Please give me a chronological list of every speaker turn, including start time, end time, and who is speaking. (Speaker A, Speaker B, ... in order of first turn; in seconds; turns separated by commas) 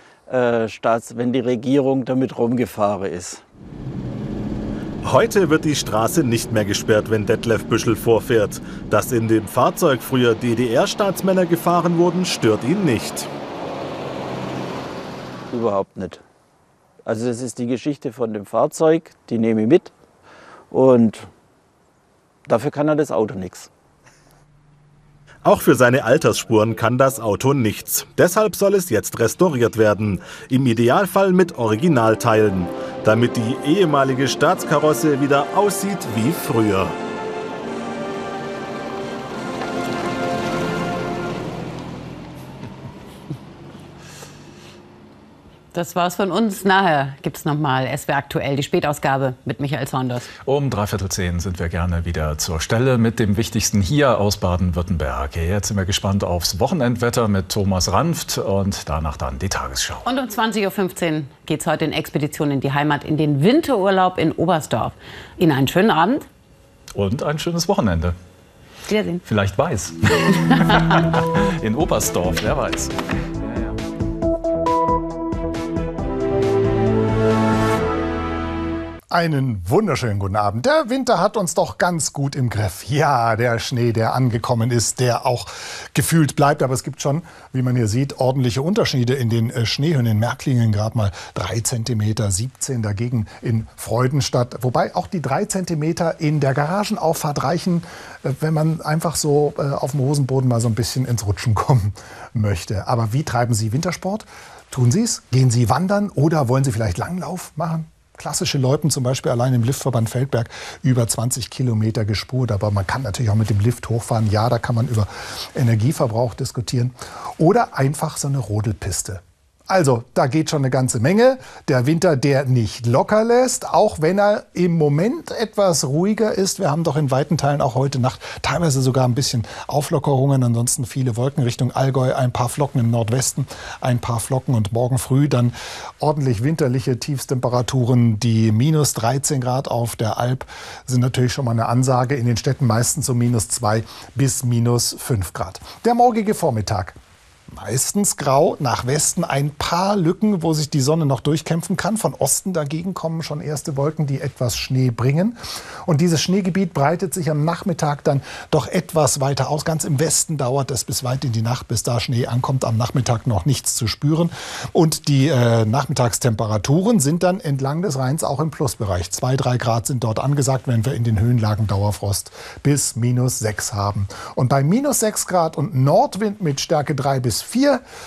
Speaker A: 0.3-3.4, Speaker B: 5.0-13.3, Speaker A: 15.5-16.2, Speaker A: 17.1-19.9, Speaker A: 20.7-21.3, Speaker A: 22.5-23.7, Speaker B: 25.4-37.0, Speaker C: 45.7-50.3, Speaker D: 50.5-60.0, Speaker C: 60.0-66.2, Speaker D: 66.9-68.2, Speaker C: 68.9-69.2, Speaker D: 69.2-72.9, Speaker E: 79.1-146.9, Speaker E: 147.5-177.8